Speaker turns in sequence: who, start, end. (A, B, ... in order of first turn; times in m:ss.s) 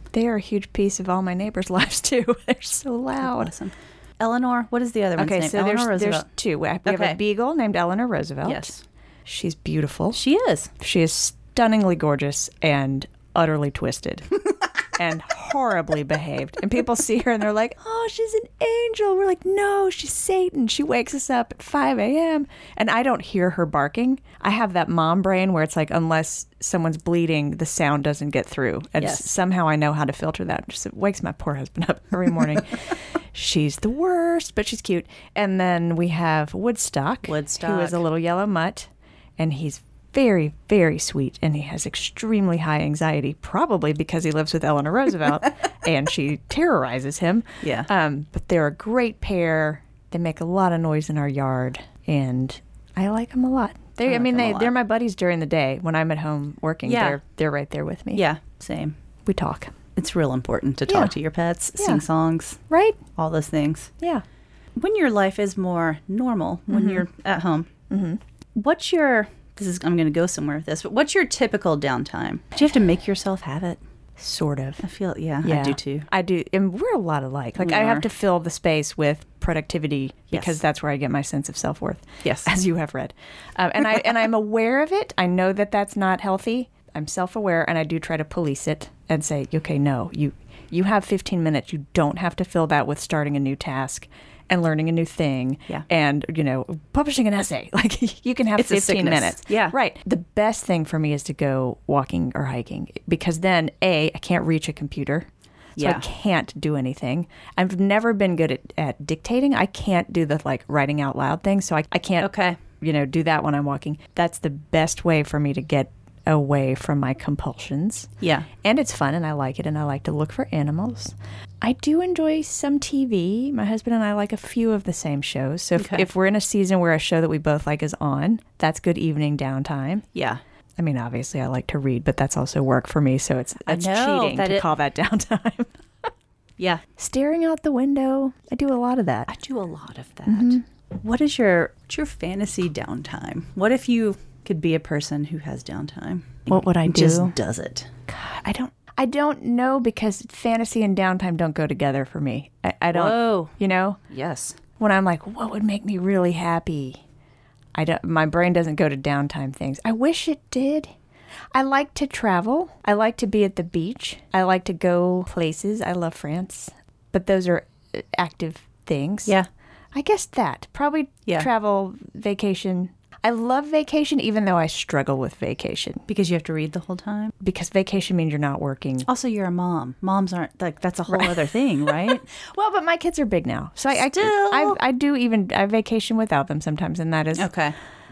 0:00.1-0:03.5 A
0:03.2-0:06.3 B
0:05.2-0:10.2 A
0:06.8-0:07.2 B
0:08.4-0:08.8 B
0:10.1-0:10.7 B
0:10.8-0:58.2 A
0:29.0-0:29.3 B
0:37.2-0:38.0 B
0:47.6-0:47.9 B
0:54.0-0:54.7 B
0:56.8-0:57.2 B
0:58.1-0:59.0 B
0:59.2-0:59.7 A
1:00.0-1:02.6 B
1:00.9-1:01.1 A
1:01.8-1:02.0 A
1:02.7-1:03.0 A
1:03.1-1:03.9 B
1:04.8-1:07.7 B
1:06.7-1:07.0 A
1:07.9-1:08.2 A
1:08.5-1:13.8 B
1:14.2-1:14.8 A
1:14.8-1:16.1 B
1:15.4-1:58.1 A
1:17.6-1:18.0 B
1:20.3-1:20.6 B
1:22.2-1:22.5 B
1:38.6-1:39.7 B
1:45.8-1:46.0 B
1:52.2-1:52.6 B
1:58.2-1:58.5 B
1:58.6-2:10.1 A
2:05.8-2:06.1 B
2:10.1-2:10.4 B
2:10.8-2:15.7 A
2:13.7-2:14.7 B
2:16.6-2:16.8 B
2:17.0-2:19.3 A
2:19.3-2:27.9 B
2:20.3-2:20.6 A
2:26.5-2:27.3 A
2:28.1-2:34.0 A
2:32.9-2:33.5 B
2:34.1-2:34.6 B
2:34.8-2:37.0 A
2:37.7-2:40.9 A
2:41.5-2:49.4 A
2:49.9-2:56.0 A
2:56.1-2:57.3 B
2:57.4-2:59.1 A
2:59.0-3:02.2 B
3:01.1-3:07.5 A
3:03.9-3:04.8 B
3:07.3-3:07.7 B